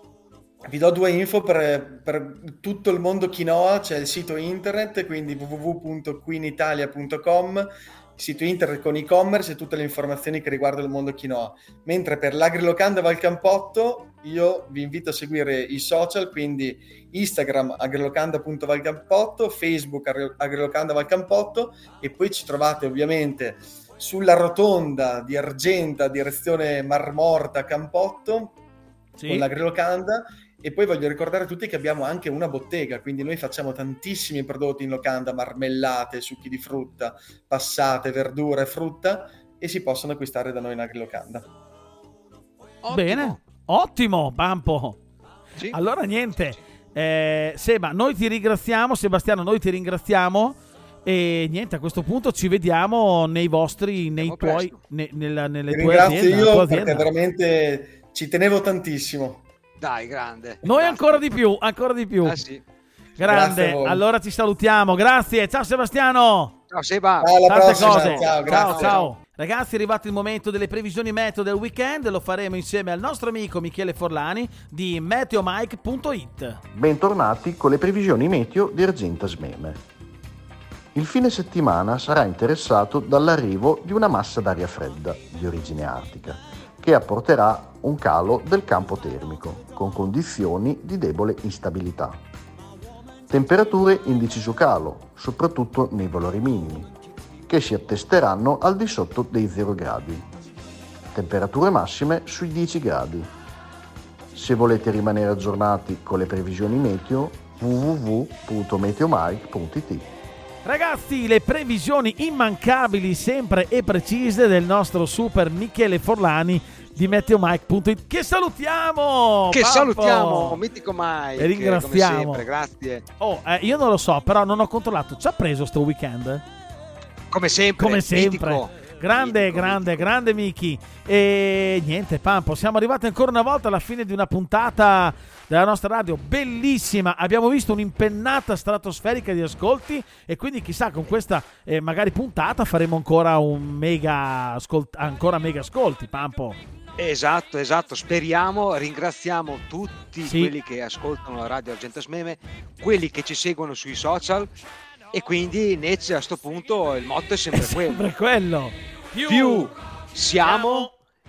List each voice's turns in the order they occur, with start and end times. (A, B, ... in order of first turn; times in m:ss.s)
0:00.6-0:28.6 A
0:29.2-0:29.5 B
0:29.3-0:41.5 A
0:42.8-0:43.4 C
0:42.9-0:45.0 B
0:45.7-0:57.1 B
0:54.2-0:54.8 C
0:55.7-0:59.4 A
0:59.8-1:01.2 C
1:00.6-1:02.4 B
1:02.2-1:02.6 C
1:03.2-1:04.0 A
1:03.2-1:06.6 B
1:06.7-1:09.1 C
1:07.2-1:09.0 A
1:07.5-1:16.6 B
1:16.7-1:19.8 D
1:21.0-1:32.2 D
1:33.3-1:36.9 D
1:37.5-1:40.2 D
1:41.1-1:43.3 D
1:44.3-1:50.1 D
1:50.6-2:00.6 B
1:59.5-2:03.1 C
2:01.4-2:02.4 B
2:03.2-2:06.4 B
2:07.3-2:10.1 C
2:07.8-2:26.6 B
2:27.0-2:34.5 C
2:30.3-2:30.5 B
2:35.1-2:38.1 C
2:37.5-2:39.7 B
2:39.3-2:40.9 C
2:40.4-2:40.9 B